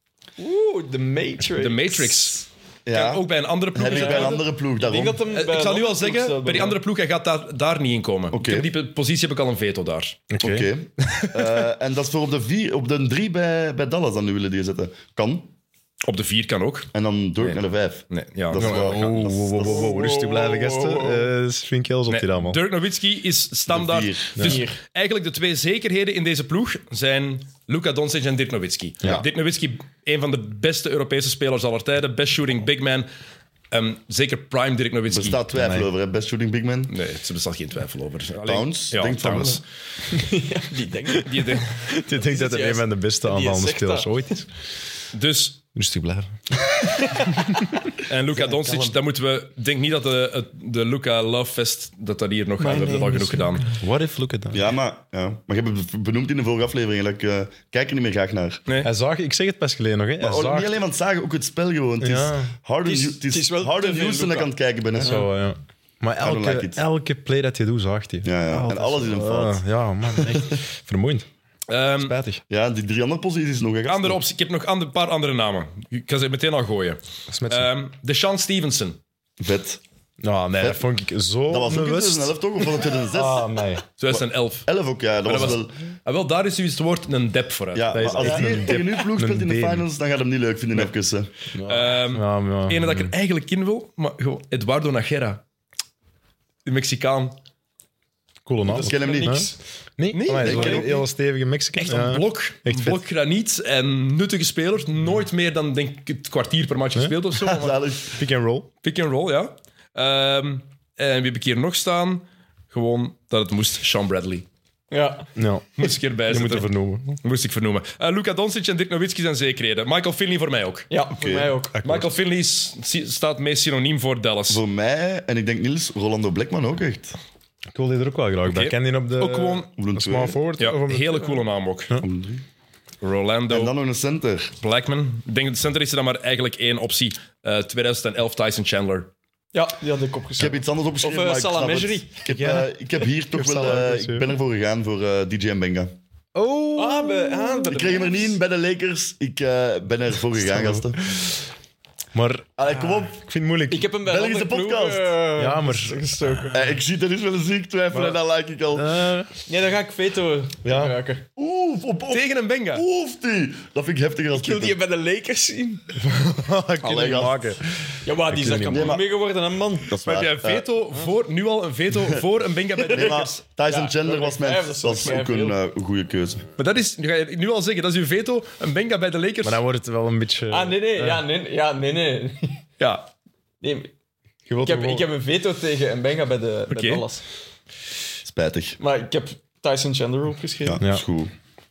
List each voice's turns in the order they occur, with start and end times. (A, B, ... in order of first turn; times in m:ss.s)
0:00.4-0:02.4 A
0:01.6-0:04.4 B
0:02.8-0:05.2 C
0:03.8-0:06.8 A
0:05.3-0:10.2 B
0:08.3-0:08.7 C
0:10.3-0:10.7 D
0:10.4-0:15.5 C
0:16.0-0:18.9 B
0:16.9-0:20.0 C
0:18.5-0:22.6 D
0:19.6-0:21.3 A
0:22.1-0:33.1 B
0:23.7-0:24.5 C
0:24.4-0:24.8 A
0:33.7-0:35.4 B
0:35.1-0:36.9 C
0:35.5-0:35.9 D
0:36.9-0:39.6 B
0:38.4-0:39.6 C
0:40.1-0:44.1 A
0:41.2-0:41.7 B
0:41.9-0:44.5 D
0:45.1-0:45.6 B
0:45.7-0:47.4 D
0:48.0-0:53.6 B
0:52.6-0:53.7 A
0:53.8-0:54.6 D
0:54.5-0:58.6 C
0:58.8-1:00.7 D
1:00.2-1:05.2 C
1:02.0-1:02.6 D
1:02.8-1:05.3 A
1:05.0-1:11.3 D
1:06.2-1:06.8 C
1:08.2-1:10.6 C
1:11.7-1:12.2 B
1:12.0-1:12.4 D
1:12.5-1:14.2 C
1:13.9-1:19.0 B
1:17.3-1:17.7 D
1:19.4-1:19.8 C
1:20.2-1:22.4 D
1:20.6-1:20.8 C
1:21.5-1:23.6 C
1:23.1-1:23.8 D
1:24.0-1:24.7 B
1:24.1-1:25.7 C
1:25.2-1:28.5 B
1:27.7-1:31.3 C
1:27.9-1:29.8 D
1:31.5-1:33.1 D
1:31.6-1:35.4 B
1:36.6-1:37.4 B
1:38.4-1:43.0 D
1:38.7-1:39.5 A
1:38.7-1:39.5 C
1:40.1-1:40.8 B
1:40.4-1:41.0 C
1:40.4-1:40.8 A
1:41.8-1:47.8 B
1:47.3-1:48.2 C
1:48.2-1:48.7 D
1:48.8-1:54.4 B
1:54.9-1:55.3 A
1:55.4-1:57.2 D
1:55.8-1:56.7 B
1:57.2-2:00.9 B
2:00.9-2:01.8 A
2:01.1-2:01.6 C
2:01.7-2:02.1 D
2:01.8-2:04.6 B
2:04.5-2:07.2 C
2:07.7-2:11.4 D
2:08.4-2:09.7 B
2:09.8-2:10.4 C
2:10.6-2:11.9 B
2:12.0-2:12.4 C
2:13.0-2:13.7 B
2:13.5-2:14.5 C
2:14.6-2:19.1 B
2:19.5-2:22.1 A
2:20.4-2:25.9 C
2:22.3-2:22.7 D
2:23.3-2:24.3 D
2:26.3-2:27.8 D
2:26.8-2:28.3 A
2:27.7-2:31.0 C
2:30.4-2:30.9 D
2:32.1-2:33.9 D
2:32.6-2:33.2 C
2:33.7-2:36.6 A
2:34.0-2:35.2 C
2:35.4-2:36.1 D
2:36.5-2:38.9 C
2:37.9-2:38.2 D
2:38.7-2:39.3 D
2:39.5-2:41.2 A
2:40.6-2:41.0 D
2:41.4-2:44.8 C
2:42.1-2:42.8 B
2:44.3-2:45.9 A
2:46.0-2:49.0 D
2:46.8-2:47.5 C
2:48.0-2:50.0 A
2:48.7-2:49.0 C
2:49.8-2:50.7 C
2:50.0-2:53.4 B
2:52.9-2:56.4 C
2:53.7-2:55.6 A
2:56.6-2:59.6 B
2:59.4-3:01.2 D
3:00.5-3:02.6 A
3:02.8-3:03.1 B
3:03.6-3:03.9 A
3:04.5-3:05.1 D
3:04.6-3:07.2 A
3:06.7-3:07.0 B
3:08.2-3:08.8 C
3:08.8-3:10.8 A
3:10.6-3:11.3 C